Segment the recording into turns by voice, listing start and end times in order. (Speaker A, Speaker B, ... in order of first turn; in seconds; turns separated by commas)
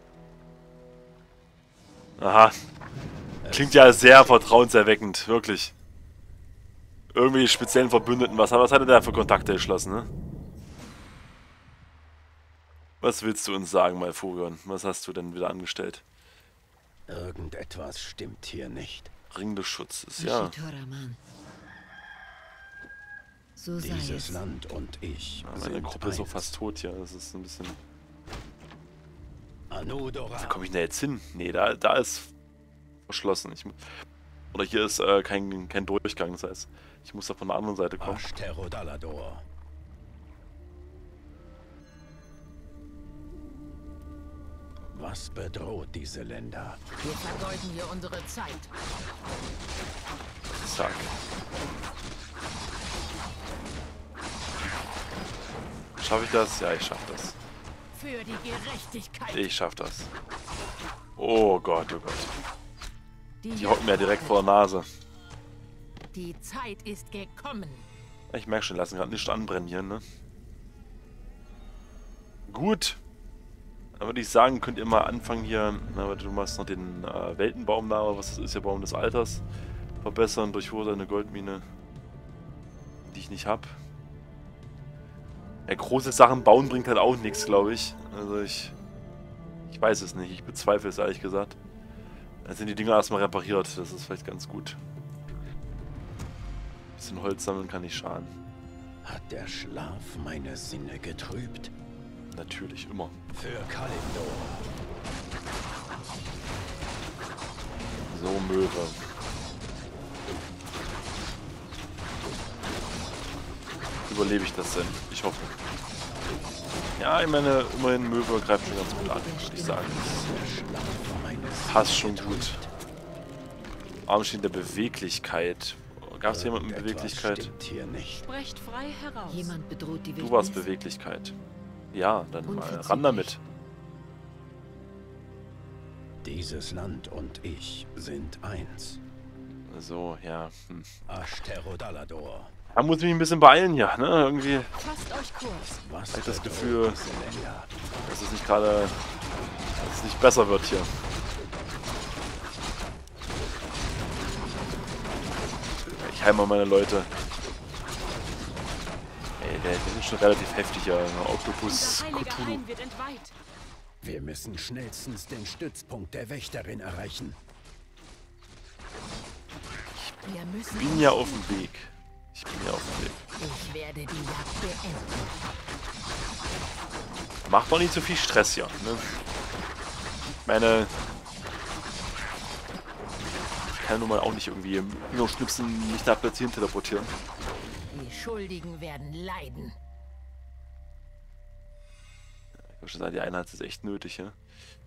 Speaker A: 2.2-2.6, Speaker B: 3.4-4.7, Speaker A: 3.5-5.7, Speaker A: 7.1-10.1, Speaker A: 13.0-16.0, Speaker B: 17.1-19.1, Speaker A: 19.3-20.5, Speaker C: 20.2-21.2, Speaker C: 23.6-24.4, Speaker B: 23.8-26.5, Speaker A: 25.4-27.8, Speaker B: 29.7-30.6, Speaker A: 30.4-32.3, Speaker A: 33.1-33.9, Speaker A: 34.5-38.2, Speaker B: 38.0-39.5, Speaker B: 44.9-46.8, Speaker D: 47.0-48.7, Speaker A: 50.5-51.1, Speaker A: 56.0-57.4, Speaker D: 57.9-59.5, Speaker A: 59.3-60.1, Speaker A: 61.2-62.3, Speaker D: 63.4-64.5, Speaker A: 63.5-64.9, Speaker D: 66.1-67.9, Speaker A: 68.3-70.0, Speaker A: 72.5-73.0, Speaker A: 74.0-79.4, Speaker A: 80.0-81.7, Speaker A: 83.1-83.8, Speaker A: 85.7-88.8, Speaker A: 89.7-91.6, Speaker A: 92.4-94.8, Speaker A: 97.0-98.3, Speaker B: 99.0-101.7, Speaker A: 102.3-103.2, Speaker B: 103.3-104.7, Speaker A: 108.1-109.0, Speaker A: 114.1-115.5, Speaker A: 117.0-120.2, Speaker C: 118.6-120.1, Speaker B: 119.7-122.7, Speaker A: 121.7-122.6, Speaker A: 124.1-127.5, Speaker B: 126.2-128.2, Speaker E: 128.2-129.6, Speaker C: 129.3-130.7, Speaker A: 130.2-131.3, Speaker A: 131.9-133.4, Speaker C: 132.5-133.4, Speaker B: 136.2-139.0, Speaker A: 139.7-140.9, Speaker B: 141.1-142.5, Speaker A: 142.7-144.7, Speaker E: 144.8-145.8, Speaker B: 145.8-147.7, Speaker A: 146.1-147.0, Speaker A: 148.0-149.0, Speaker A: 149.8-150.9, Speaker A: 155.9-157.1, Speaker A: 159.4-162.6, Speaker E: 161.7-163.3, Speaker B: 164.0-167.4, Speaker D: 170.2-171.7, Speaker A: 170.7-173.2, Speaker D: 173.4-175.4, Speaker A: 177.5-179.1, Speaker A: 180.4-180.9, Speaker A: 183.8-187.1, Speaker D: 187.9-189.8, Speaker A: 192.7-194.4